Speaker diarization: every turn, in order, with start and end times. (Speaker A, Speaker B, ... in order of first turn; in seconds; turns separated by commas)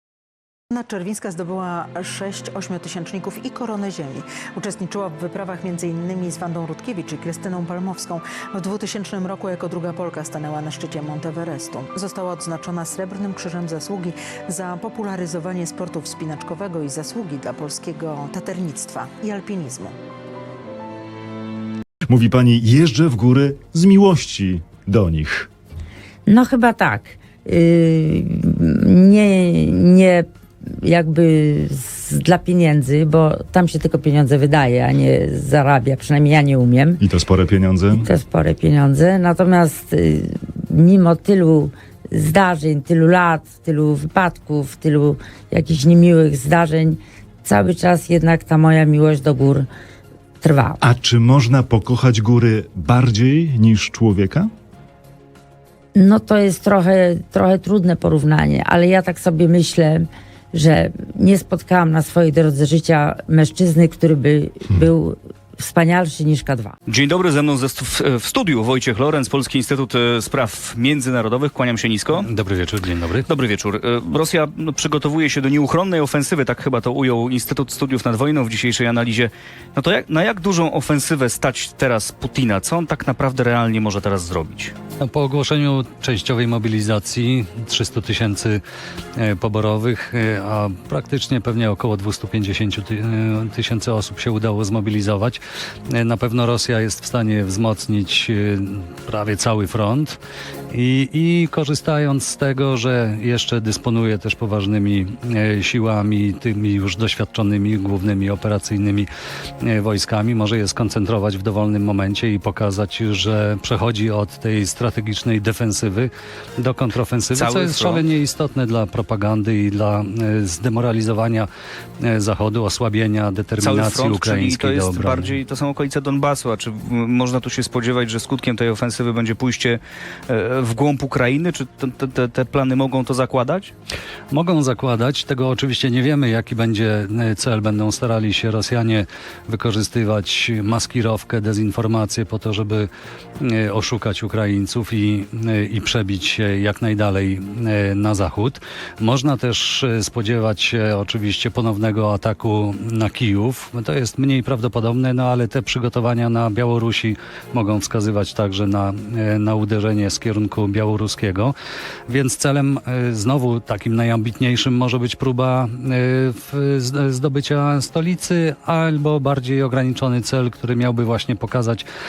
Speaker A: 0.7-20.0, Speaker B: 22.1-25.5, Speaker C: 26.3-37.0, Speaker B: 37.0-38.1, Speaker C: 37.9-49.7, Speaker C: 50.4-50.8, Speaker B: 50.8-54.5, Speaker C: 56.0-66.8, Speaker D: 66.9-72.2, Speaker E: 72.1-73.3, Speaker D: 73.3-84.7, Speaker E: 85.0-88.6, Speaker E: 89.2-100.2, Speaker E: 100.7-109.1, Speaker E: 109.6-121.5, Speaker D: 117.3-118.0, Speaker E: 122.0-125.4, Speaker D: 123.6-133.7, Speaker E: 134.3-142.9, Speaker E: 143.4-161.5, Speaker E: 162.1-171.8